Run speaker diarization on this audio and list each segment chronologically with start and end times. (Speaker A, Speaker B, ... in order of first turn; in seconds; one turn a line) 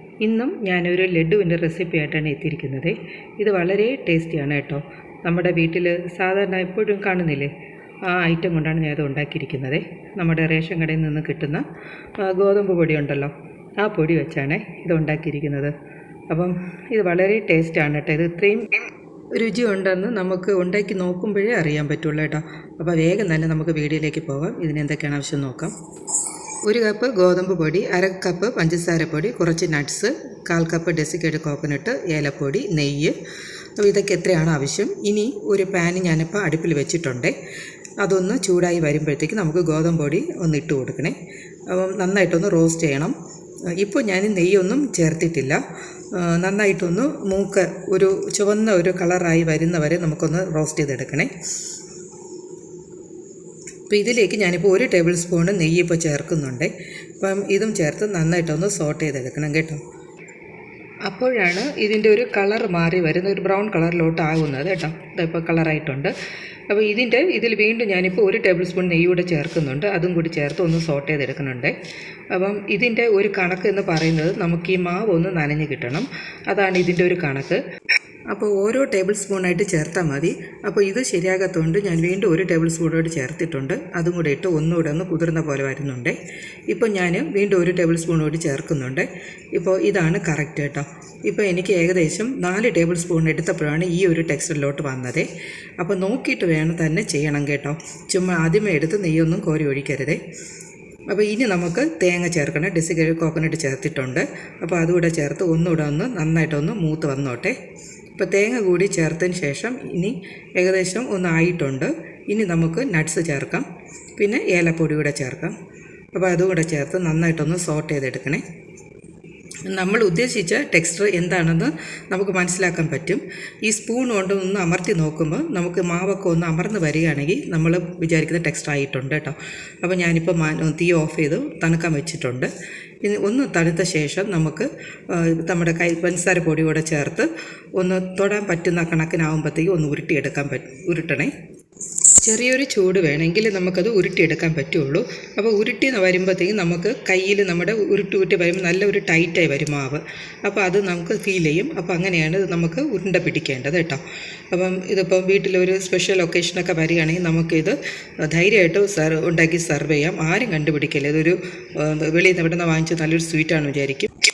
Speaker A: 0.2-7.5
Speaker A: 8.0-11.6
Speaker A: 12.2-15.7
Speaker A: 16.3-18.7
Speaker A: 19.3-25.7
Speaker A: 26.6-33.1
Speaker A: 33.8-37.3
Speaker A: 38.0-41.1
Speaker A: 41.7-43.1
Speaker A: 43.7-45.6
Speaker A: 46.1-51.3
Speaker A: 53.9-59.8
Speaker A: 61.1-66.1
Speaker A: 66.7-71.7
Speaker A: 72.3-77.6
Speaker A: 78.3-86.2
Speaker A: 86.7-95.3
Speaker A: 95.8-100.2
Speaker A: 101.1-107.5
Speaker A: 108.2-113.7
Speaker A: 114.2-115.5
Speaker A: 116.1-118.4
Speaker A: 119.7-132.5
Speaker A: 133.0-141.3
Speaker A: 142.2-164.1